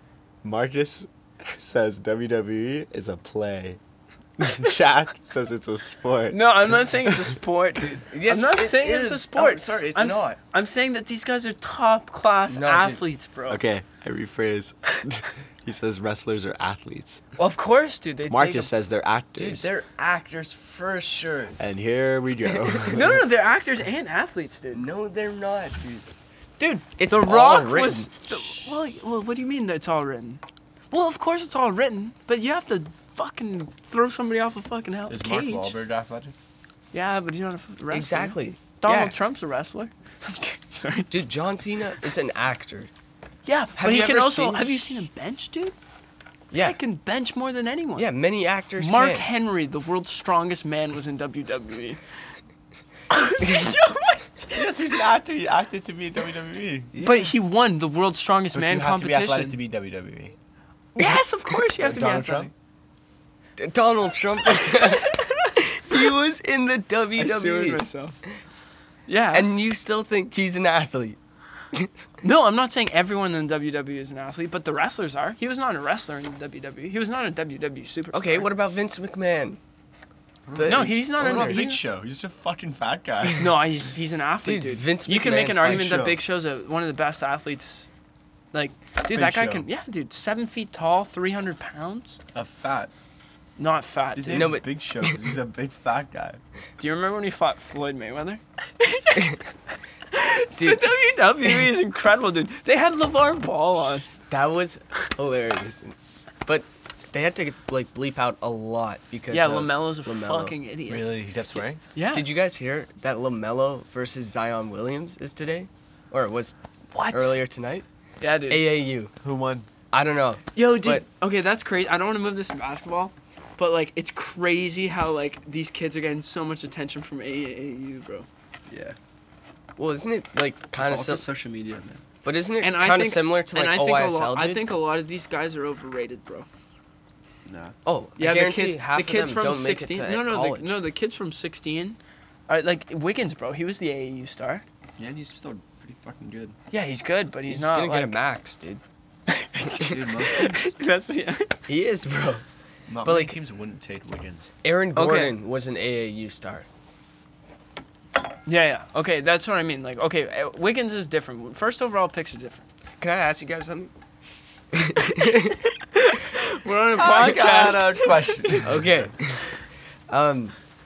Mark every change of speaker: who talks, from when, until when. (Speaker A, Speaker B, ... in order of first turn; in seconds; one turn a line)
Speaker A: 0.4-3.8
Speaker A: 4.4-6.4
Speaker B: 6.3-13.6
Speaker C: 8.1-10.4
Speaker C: 12.5-13.0
Speaker A: 13.5-17.2
Speaker B: 17.4-18.7
Speaker A: 18.3-19.7
Speaker C: 19.4-21.6
Speaker A: 21.6-23.2
Speaker B: 22.9-24.9
Speaker C: 24.7-26.1
Speaker B: 26.6-35.7
Speaker C: 27.0-28.2
Speaker A: 35.1-36.3
Speaker B: 36.9-41.2
Speaker C: 37.9-39.1
Speaker C: 41.1-42.9
Speaker B: 43.4-45.7
Speaker C: 43.8-44.8
Speaker C: 46.5-46.8
Speaker B: 46.6-48.1
Speaker C: 48.0-49.2
Speaker B: 48.8-52.4
Speaker B: 53.1-54.9
Speaker A: 54.5-56.9
Speaker C: 56.9-57.3
Speaker B: 57.0-59.6
Speaker A: 58.5-60.4
Speaker B: 61.0-62.5
Speaker A: 61.7-62.5
Speaker C: 63.6-67.8
Speaker B: 64.4-65.5
Speaker B: 67.2-68.2
Speaker B: 69.1-69.5
Speaker C: 69.3-71.2
Speaker B: 72.2-78.5
Speaker C: 78.1-79.6
Speaker A: 80.5-83.5
Speaker C: 80.5-81.7
Speaker B: 80.6-81.8
Speaker B: 83.4-87.9
Speaker C: 84.4-86.1
Speaker A: 85.6-86.2
Speaker B: 88.5-92.2
Speaker A: 89.1-89.7
Speaker A: 92.3-92.9
Speaker B: 93.6-94.5
Speaker A: 94.2-96.4
Speaker C: 94.3-95.2
Speaker B: 96.8-99.4
Speaker B: 100.1-104.1
Speaker C: 100.6-100.8
Speaker C: 104.3-110.5
Speaker B: 109.3-111.3
Speaker A: 110.9-111.8
Speaker B: 111.9-112.2
Speaker C: 112.1-116.6
Speaker B: 116.9-117.4
Speaker C: 117.1-117.8
Speaker B: 118.2-118.7
Speaker C: 118.5-119.1
Speaker A: 119.2-119.7
Speaker C: 119.9-121.0
Speaker B: 120.5-128.3
Speaker A: 128.7-129.0
Speaker C: 129.8-131.2
Speaker A: 130.8-132.0
Speaker C: 132.2-134.7
Speaker B: 132.6-136.5
Speaker A: 137.4-137.7
Speaker C: 137.8-140.8
Speaker B: 138.2-144.6
Speaker A: 145.0-146.6
Speaker B: 146.7-148.2
Speaker C: 147.4-148.8
Speaker B: 149.3-151.6
Speaker A: 149.8-150.7
Speaker C: 151.7-152.4
Speaker A: 152.9-154.5
Speaker C: 153.0-153.3
Speaker C: 154.6-156.7
Speaker B: 154.9-155.3
Speaker B: 158.4-162.6
Speaker C: 163.0-163.9
Speaker C: 164.7-165.6
Speaker B: 165.9-168.7
Speaker A: 166.9-169.1
Speaker C: 168.6-169.5
Speaker C: 170.1-170.6